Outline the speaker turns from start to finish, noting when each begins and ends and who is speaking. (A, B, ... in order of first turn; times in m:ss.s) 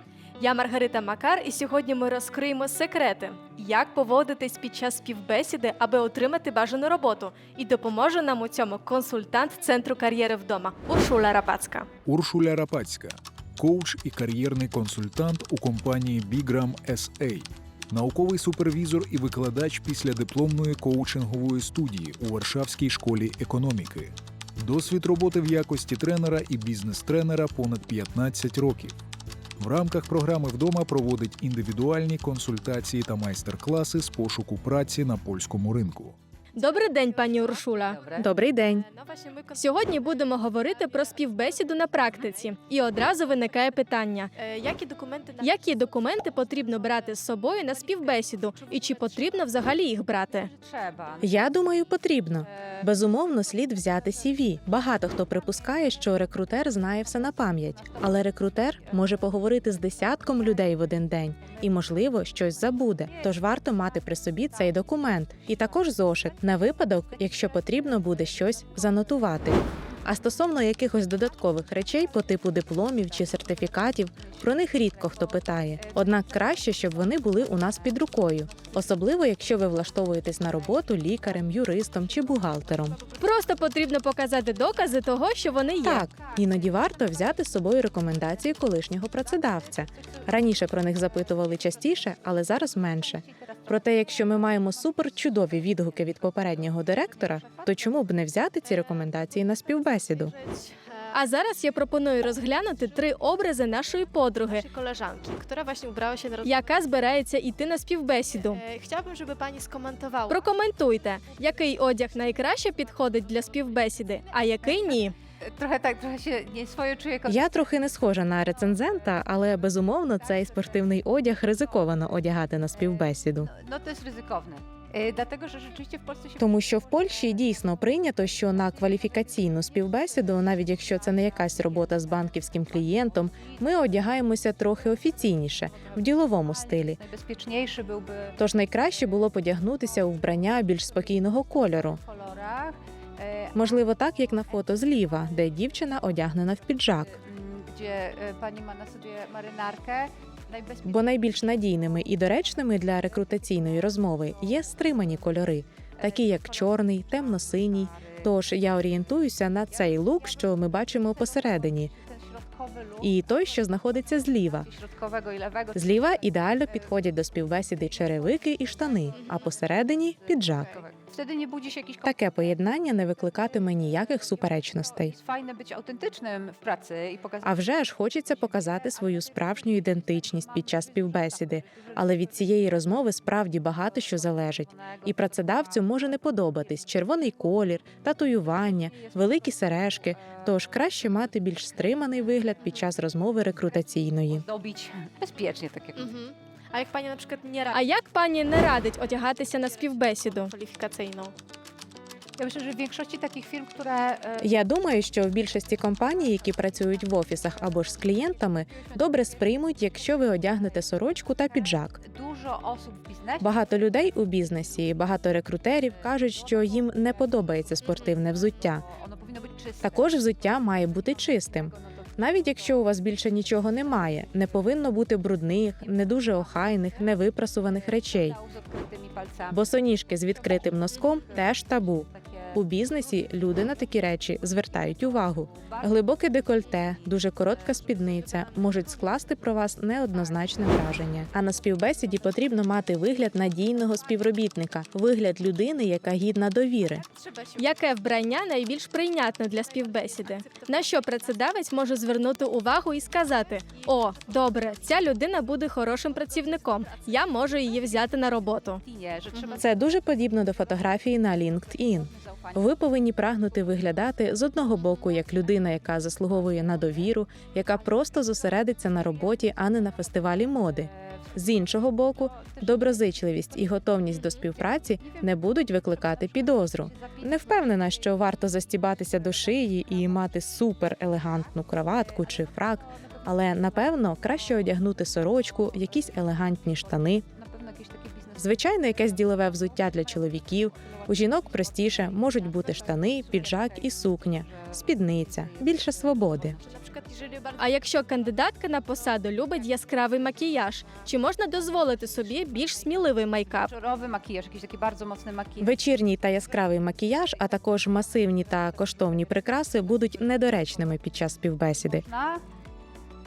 0:00.4-0:11.9 A
0:12.0-0:29.0 B
0:29.6-0:36.2 B
0:36.6-0:38.1 A
0:38.2-0:38.9 C
0:38.8-0:42.5 D
0:38.9-0:50.5 A
0:44.4-0:44.7 D
0:45.3-0:45.9 D
0:47.9-0:49.5 E
0:50.5-0:51.4 E
0:51.2-1:23.0 C
0:52.5-0:52.8 E
0:56.9-1:00.6 E
1:01.4-1:09.4 E
1:10.0-1:10.3 E
1:12.1-1:18.8 E
1:20.6-1:23.6 E
1:23.2-1:26.1 A
1:25.7-1:28.7 E
1:25.8-1:40.3 C
1:29.2-1:32.1 E
1:32.9-1:35.9 E
1:36.8-1:38.1 E
1:40.5-1:41.0 D
1:41.1-1:44.6 A
1:44.5-1:46.5 D
1:46.4-1:48.6 A
1:48.5-1:50.4 D
1:50.3-1:55.2 A
1:55.5-1:57.5 E
1:57.3-2:03.5 C
2:03.5-2:06.6 E
2:06.4-2:17.0 C
2:11.1-2:13.9 E
2:15.7-2:18.4 E
2:18.4-2:22.0 C
2:22.0-2:23.7 E
2:23.6-2:27.1 C
2:27.1-2:31.1 E
2:30.8-2:41.9 C
2:37.7-2:38.3 E
2:40.0-2:40.6 E
2:41.2-2:43.5 E
2:43.0-2:44.7 C
2:44.5-2:47.1 E
2:45.8-2:50.8 C
2:47.9-2:49.6 E
2:50.2-2:52.2 E
2:52.0-2:55.2 C
2:55.0-2:57.6 E
2:57.4-3:14.5 C
2:58.4-3:02.7 E
3:04.1-3:06.0 E
3:08.6-3:09.8 E
3:14.4-3:16.1 E
3:16.0-3:21.3 A
3:22.4-3:24.5 E
3:24.4-3:32.0 C
3:28.0-3:29.5 E
3:32.0-3:33.8 E
3:33.4-3:38.8 C
3:36.1-3:40.6 E
3:39.8-3:48.4 C
3:41.3-3:42.2 E
3:46.0-3:53.4 E
3:49.5-4:07.0 C
3:55.5-3:59.1 E
4:07.2-4:07.6 D
4:07.6-4:18.8 A
4:09.5-4:11.6 D
4:16.3-4:19.8 E
4:19.6-4:47.2 C
4:21.9-4:22.8 E
4:25.2-4:25.5 E
4:26.4-4:29.5 E
4:30.8-4:38.5 E
4:39.0-4:40.3 E
4:41.2-4:44.7 E
4:45.7-4:46.3 E
4:46.8-4:57.5 E
4:48.4-4:56.6 C
4:56.7-4:57.5 D
4:57.6-5:03.7 A
5:02.0-5:02.8 E
5:03.6-5:05.8 E
5:05.6-5:12.0 C
5:11.9-5:12.4 E